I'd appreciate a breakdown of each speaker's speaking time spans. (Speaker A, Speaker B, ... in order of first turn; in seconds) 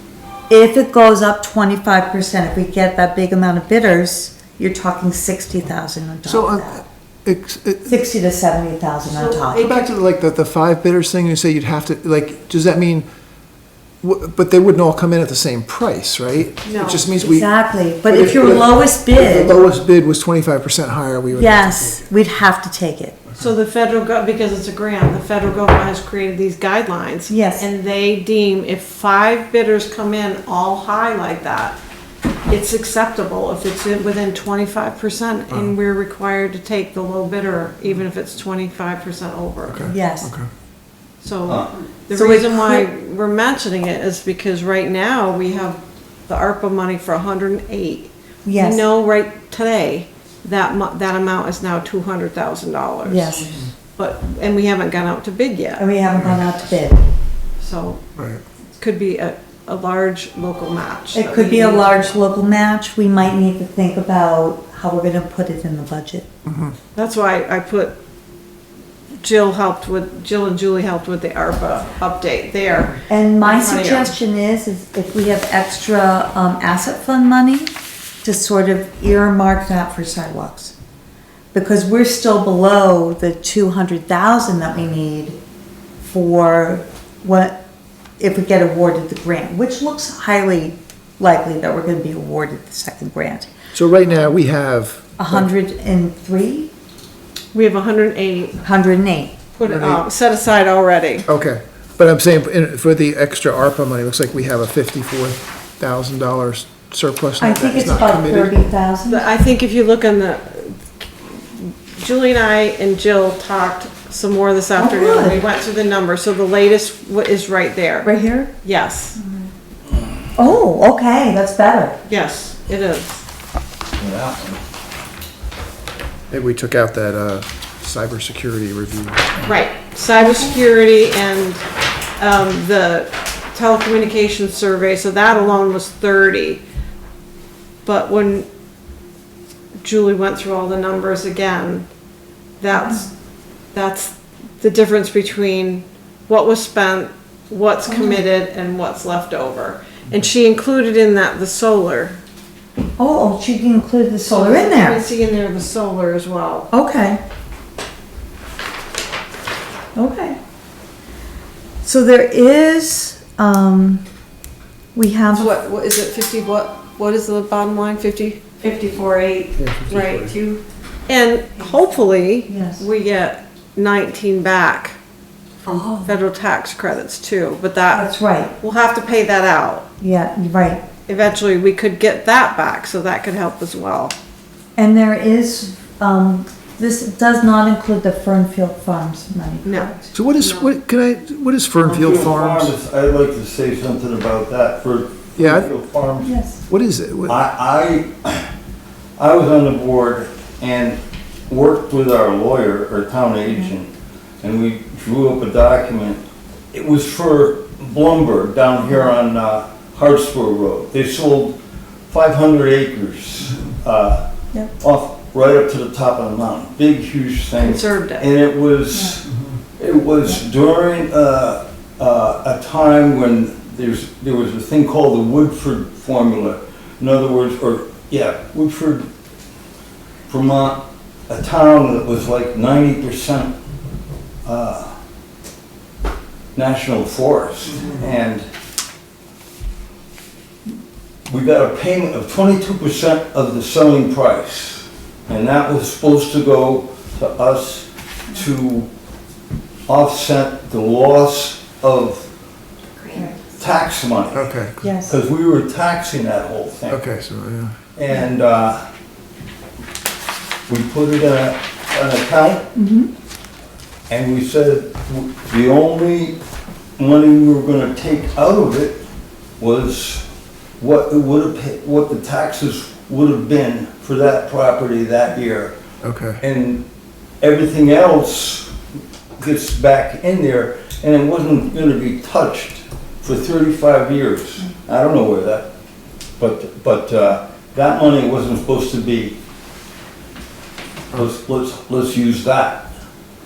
Speaker A: 0.5-6.8, 7.9-9.7, 17.2-19.6, 21.3-23.2, 27.3-27.7, 39.9-40.3, 42.1-42.9, 48.5-48.9, 53.0-53.7, 55.8-57.1, 61.1-66.3, 73.1-80.8, 81.5-85.4, 86.0-87.6, 88.2-93.5, 95.2-96.7, 98.6-99.4, 107.4-109.3, 114.8-115.4, 118.0-118.5, 119.2-119.5, 120.3-122.0, 130.2-130.5, 142.7-143.0, 147.9-148.2, 153.0-155.0, 156.7-157.2, 159.9-160.4, 161.8-164.0, 164.9-165.5, 171.6-172.9, 175.7-176.2, 177.9-178.5, 180.0-180.8, 184.8-190.1, 196.2-196.7, 253.0-253.4, 254.8-255.2, 262.8-263.1
Speaker B: 6.3-8.0, 9.5-13.1, 14.0-17.5, 18.1-22.1, 39.7-40.5, 56.1-56.5, 58.2-58.4, 66.5-66.8, 93.7-95.5, 99.7-100.0, 101.3-108.5, 126.3-129.3, 169.6-170.3, 190.1-192.7, 195.4-195.7, 196.7-197.4, 254.3-254.9, 256.9-257.8, 276.0-276.4
Speaker C: 9.1-9.9, 16.6-17.1, 23.4-31.8, 32.5-39.9, 41.2-55.9, 57.6-58.0, 58.8-62.1, 67.0-68.0, 69.2-74.2, 97.5-98.6, 99.6-101.3, 109.1-118.1, 118.6-119.2, 122.1-123.2, 129.4-131.6, 132.2-136.6, 137.8-138.5, 139.8-141.9, 142.6-143.1, 143.7-152.2, 154.3-156.7, 165.3-175.0, 175.7-179.9, 181.1-184.2, 189.7-190.7, 217.6-218.3
Speaker D: 124.0-124.6, 191.8-196.3, 197.3-198.4, 199.2-203.9, 204.4-211.6, 212.1-214.2, 214.8-229.1, 230.3-233.5, 234.4-234.9, 236.6-238.5, 241.3-248.9, 249.9-252.3, 253.6-254.5, 255.1-257.0, 257.9-258.8, 260.7-262.7, 264.1-266.4, 267.0-269.0, 269.6-270.2, 270.8-275.7, 276.4-276.8, 277.4-278.7, 279.4-285.7, 286.4-289.4, 291.1-292.9